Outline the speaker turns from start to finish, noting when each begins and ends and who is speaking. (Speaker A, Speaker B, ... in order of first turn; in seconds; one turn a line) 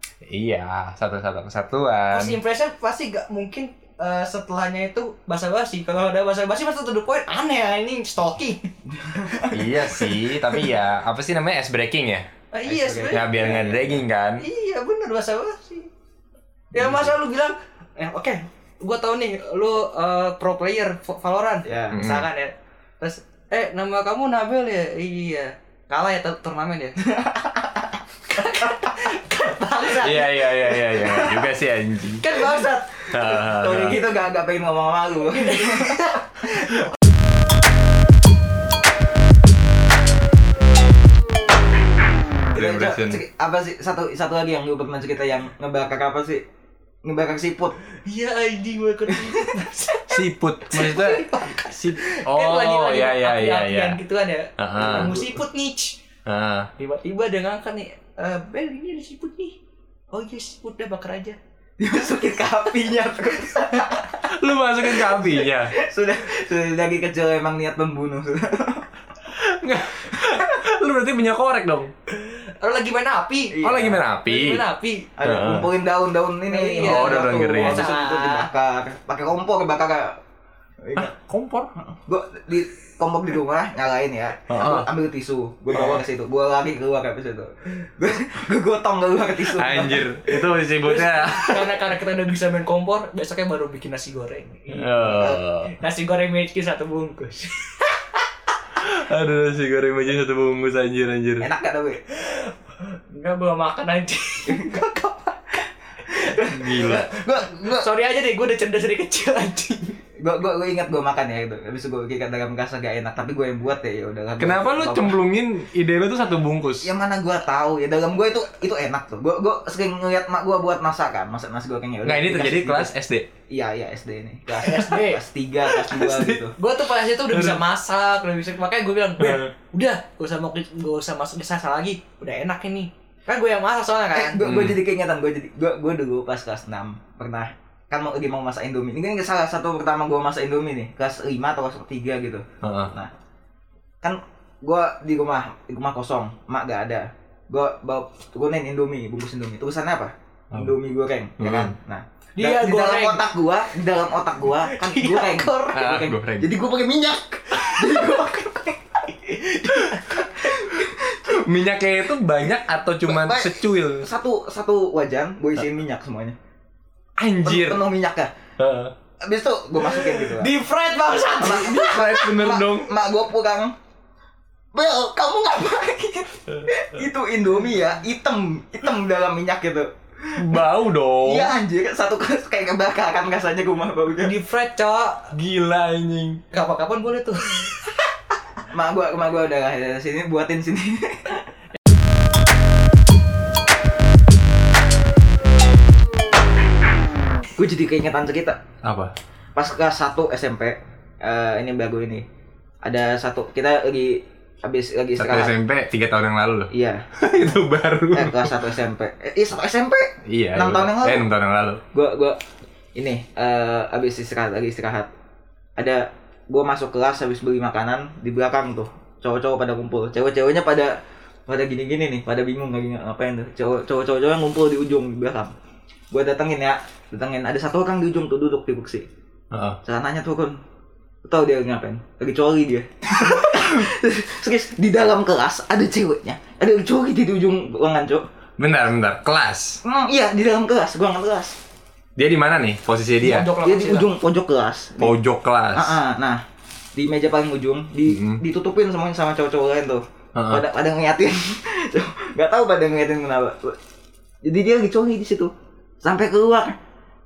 Speaker A: 0.3-2.4
Speaker B: 2.1-8.6
Speaker C: 8.9-9.6
Speaker A: 9.5-12.2
Speaker B: 9.7-10.6
Speaker B: 12.5-13.3
Speaker C: 12.7-14.1
Speaker A: 13.1-14.4
Speaker B: 14.4-15.9
Speaker B: 16.7-27.0
Speaker A: 16.8-17.1
Speaker C: 21.6-22.0
Speaker A: 21.9-22.2
Speaker C: 27.1-27.7
Speaker B: 28.3-31.3
Speaker A: 30.0-32.2
Speaker B: 32.2-33.0
Speaker A: 33.1-34.0
Speaker C: 33.2-36.8
Speaker B: 35.3-36.2
Speaker A: 42.5-43.2
Speaker C: 42.5-46.4
Speaker C: 47.0-47.7
Speaker B: 48.0-56.0
Speaker A: 50.1-54.0
Speaker A: 54.6-55.1
Speaker C: 54.8-55.4
Speaker A: 56.2-56.7
Speaker B: 56.8-59.5
Speaker B: 60.1-61.4
Speaker C: 61.8-64.2
Speaker A: 64.2-65.7
Speaker C: 64.8-68.9
Speaker A: 69.3-71.9
Speaker B: 72.1-75.1
Speaker C: 73.5-74.0
Speaker A: 73.7-74.6
Speaker C: 75.2-80.1
Speaker A: 75.2-75.7
Speaker B: 76.5-78.5
Speaker A: 76.8-77.9
Speaker C: 80.8-81.1
Speaker A: 81.0-81.7
Speaker C: 81.8-90.1
Speaker A: 84.5-84.9
Speaker A: 85.7-86.0
Speaker A: 89.5-91.8
Speaker B: 90.8-98.2
Speaker A: 94.7-95.7
Speaker A: 98.8-101.5
Speaker C: 101.4-102.0
Speaker B: 102.1-105.4
Speaker C: 104.5-105.0
Speaker C: 106.1-107.9
Speaker A: 106.5-107.1
Speaker B: 107.6-110.0
Speaker C: 110.2-115.2
Speaker A: 114.4-116.9
Speaker C: 116.8-122.9
Speaker A: 122.0-123.3
Speaker C: 123.5-126.5
Speaker B: 124.6-125.2
Speaker A: 125.7-126.4
Speaker B: 126.6-134.5
Speaker A: 127.3-127.6
Speaker A: 129.2-129.5
Speaker C: 134.1-143.1
Speaker A: 134.4-134.8
Speaker A: 142.6-142.9
Speaker C: 144.0-161.4
Speaker A: 151.4-151.7
Speaker B: 152.4-153.2
Speaker B: 154.5-155.8
Speaker A: 155.7-156.5
Speaker B: 157.6-158.0
Speaker B: 159.2-160.3
Speaker A: 161.3-164.1
Speaker C: 163.1-166.4
Speaker A: 167.2-167.8
Speaker C: 167.4-168.3
Speaker A: 168.6-168.9
Speaker C: 169.2-170.5
Speaker B: 169.8-172.3
Speaker C: 171.4-173.7
Speaker A: 171.5-172.9
Speaker C: 174.7-180.6
Speaker A: 180.4-181.5
Speaker C: 181.2-184.3
Speaker B: 184.2-185.3
Speaker A: 185.3-186.4
Speaker B: 186.5-187.8
Speaker C: 188.7-191.4
Speaker C: 197.6-198.6
Speaker A: 198.8-199.1
Speaker C: 199.6-202.2
Speaker C: 202.8-205.6
Speaker A: 205.2-208.5
Speaker C: 206.7-207.0
Speaker C: 208.1-211.3
Speaker A: 210.3-211.8
Speaker C: 211.9-212.4
Speaker C: 212.9-215.1
Speaker C: 215.8-220.9
Speaker C: 221.5-225.5
Speaker C: 226.1-229.0
Speaker A: 229.5-229.8
Speaker C: 229.8-230.6
Speaker C: 231.2-238.2
Speaker A: 238.6-239.8
Speaker C: 239.8-241.5
Speaker A: 242.2-243.5
Speaker B: 243.2-244.1
Speaker C: 243.6-245.2
Speaker A: 245.0-246.0
Speaker C: 245.7-246.4
Speaker C: 246.9-253.8
Speaker A: 248.1-248.4
Speaker A: 250.3-250.6
Speaker C: 254.4-255.5
Speaker C: 256.0-256.7